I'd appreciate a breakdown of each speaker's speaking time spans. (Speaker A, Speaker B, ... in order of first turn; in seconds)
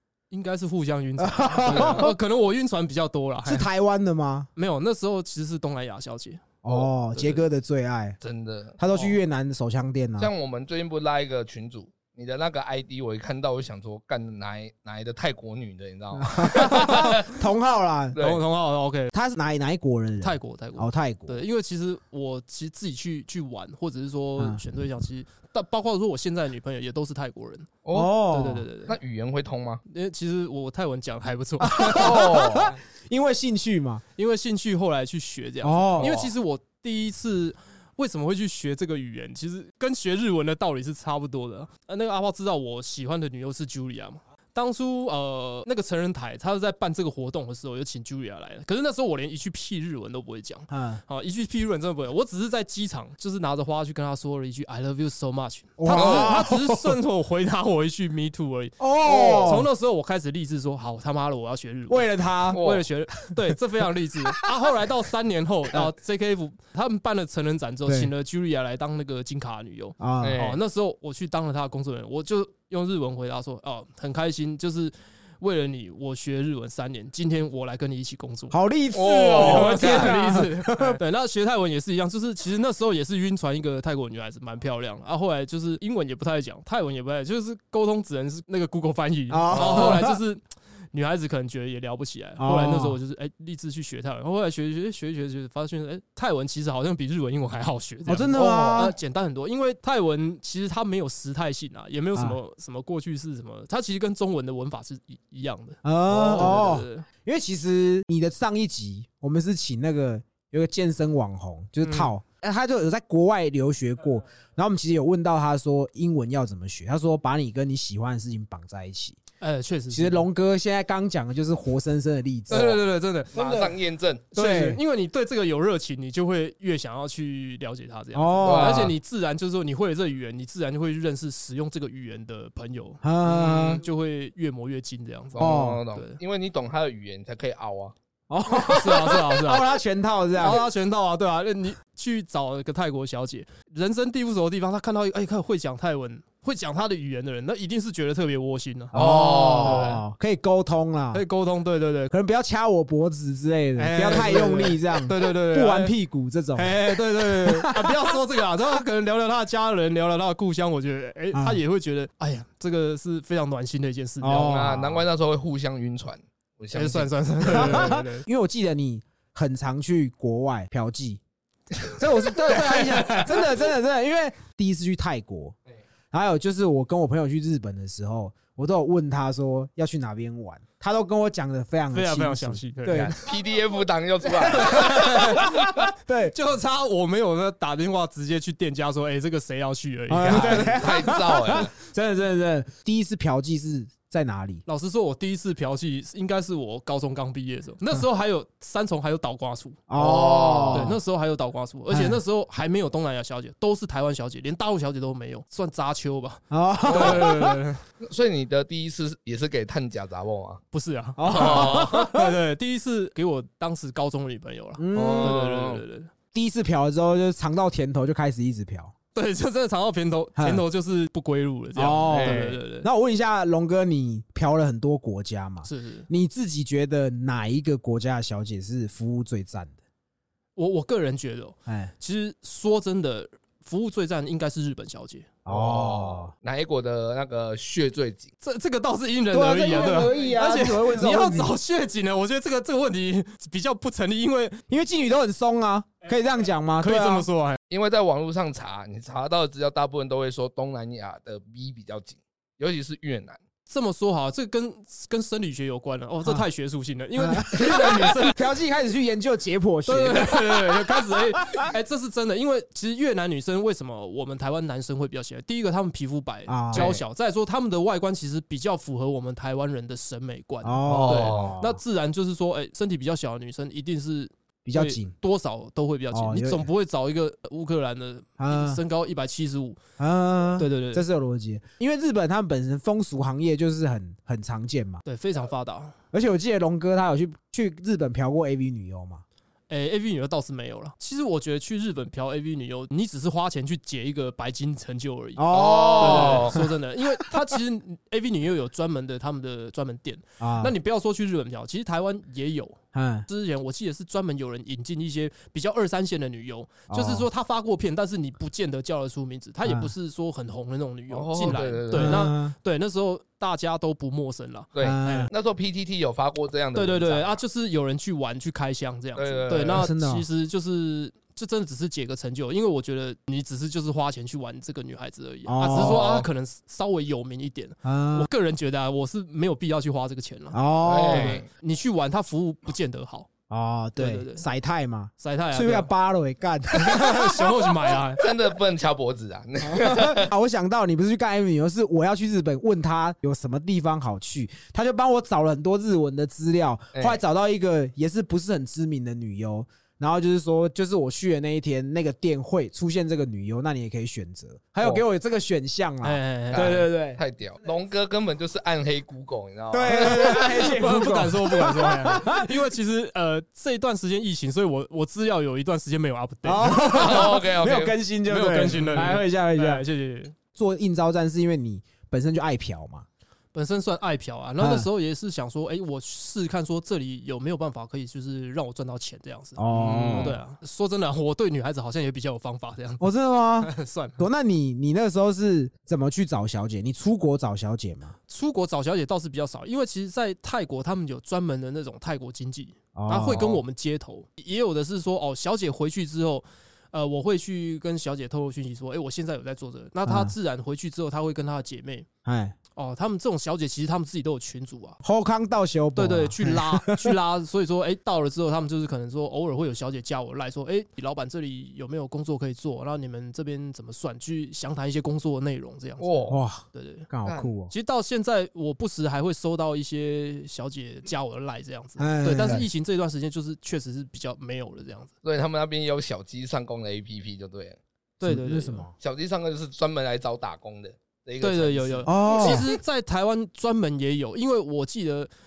Speaker A: 0.3-3.7, 4.6-6.4, 7.2-7.4, 18.2-19.1, 20.2-27.7, 28.3-29.0, 29.9-32.3, 34.2-78.6, 79.4-90.4, 90.9-107.1, 111.8-112.1, 119.4-120.3, 122.5-123.7, 124.3-136.2, 138.7-139.7, 140.4-150.0, 151.1-152.1, 153.8-155.9, 156.6-164.7, 166.7-168.2, 172.4-173.5, 181.9-183.3, 184.4-185.7, 186.3-191.1, 194.7-199.8, 200.7-207.8, 210.7-216.1, 219.1-222.9, 225.7-226.1, 230.6-235.3, 238.4-244.6, 246.8-247.6, 253.7-258.4, 259.9-279.8, 280.6-281.1, 285.1-286.0, 289.7-315.3, 316.8-333.3, 334.0-334.5, 335.2-335.9, 336.7-338.2, 356.0-356.9, 360.0-367.2, 368.2-370.4, 373.5-383.1, 383.6-384.2, 388.3-402.1, 402.8-405.0, 405.9-417.1, 417.7-425.1, 428.2-428.9, 431.4-435.3
Speaker B: 1.2-2.1, 3.5-4.5, 6.6-8.2, 8.8-10.3, 16.2-18.2, 19.1-21.4, 27.9-28.6, 31.6-34.0, 35.6-36.1, 50.7-51.0, 55.8-57.0, 58.8-59.7, 61.9-62.6, 64.2-64.5, 67.9-68.1, 70.0-70.4, 78.5-81.0, 89.3-90.2, 92.4-93.0, 98.1-99.0, 105.8-119.2, 119.9-122.8, 123.4-123.7, 124.3-124.8, 128.1-128.9, 133.0-133.8, 135.4-135.8, 138.3-140.6, 148.9-151.2, 152.1-158.2, 161.3-161.6, 164.2-165.1, 167.5-171.2, 171.9-175.6, 176.1-183.1, 184.5-186.3, 190.1-194.6, 199.9-201.0, 201.9-202.2, 206.5-207.6, 211.2-212.3, 214.8-215.4, 216.3-218.9, 220.4-220.6, 221.8-229.8, 231.7-231.9, 235.5-236.3, 239.3-241.6, 244.7-247.3, 257.2-261.6, 266.5-267.0, 270.6-271.8, 274.7-275.1, 276.1-276.7, 278.4-278.8, 280.0-285.0, 286.1-289.2, 295.4-297.4, 300.4-300.7, 302.9-303.3, 306.9-307.3, 309.6-309.9, 311.9-312.6, 314.8-315.3, 319.7-320.3, 325.5-326.1, 327.8-328.3, 330.5-331.4, 333.5-338.0, 339.6-357.2, 359.7-362.6, 366.4-369.9, 370.6-373.1, 374.6-374.9, 379.6-380.4, 383.0-388.1, 392.9-393.4, 400.1-400.3, 402.2-402.6, 405.0-407.1, 416.3-417.7, 422.0-422.7, 428.2-428.9, 432.1-432.7
Speaker C: 1.6-2.1, 8.2-8.8, 10.2-17.4, 18.1-18.4, 27.9-28.2, 28.9-29.8, 32.0-32.8, 36.0-36.3, 55.9-56.4, 59.0-59.5, 62.5-62.9, 70.2-70.6, 78.9-80.2, 89.5-90.0, 98.3-98.9, 122.5-122.8, 123.3-124.2, 128.4-128.9, 135.3-137.9, 148.9-149.9, 164.4-167.9, 182.9-185.2, 190.2-191.7, 199.9-200.9, 206.9-207.2, 208.0-210.6, 211.3-212.1, 214.9-215.8, 222.1-222.6, 235.5-238.3, 247.7-253.4, 266.7-267.0, 270.9-271.6, 295.5-296.6, 311.1-312.3, 314.8-317.4, 319.2-319.9, 325.7-326.3, 330.8-331.5, 338.2-340.3, 346.9-347.2, 356.5-360.6, 366.8-368.0, 379.7-380.4, 393.3-393.6, 416.0-416.4, 417.2-417.5, 425.2-427.8, 429.0-432.7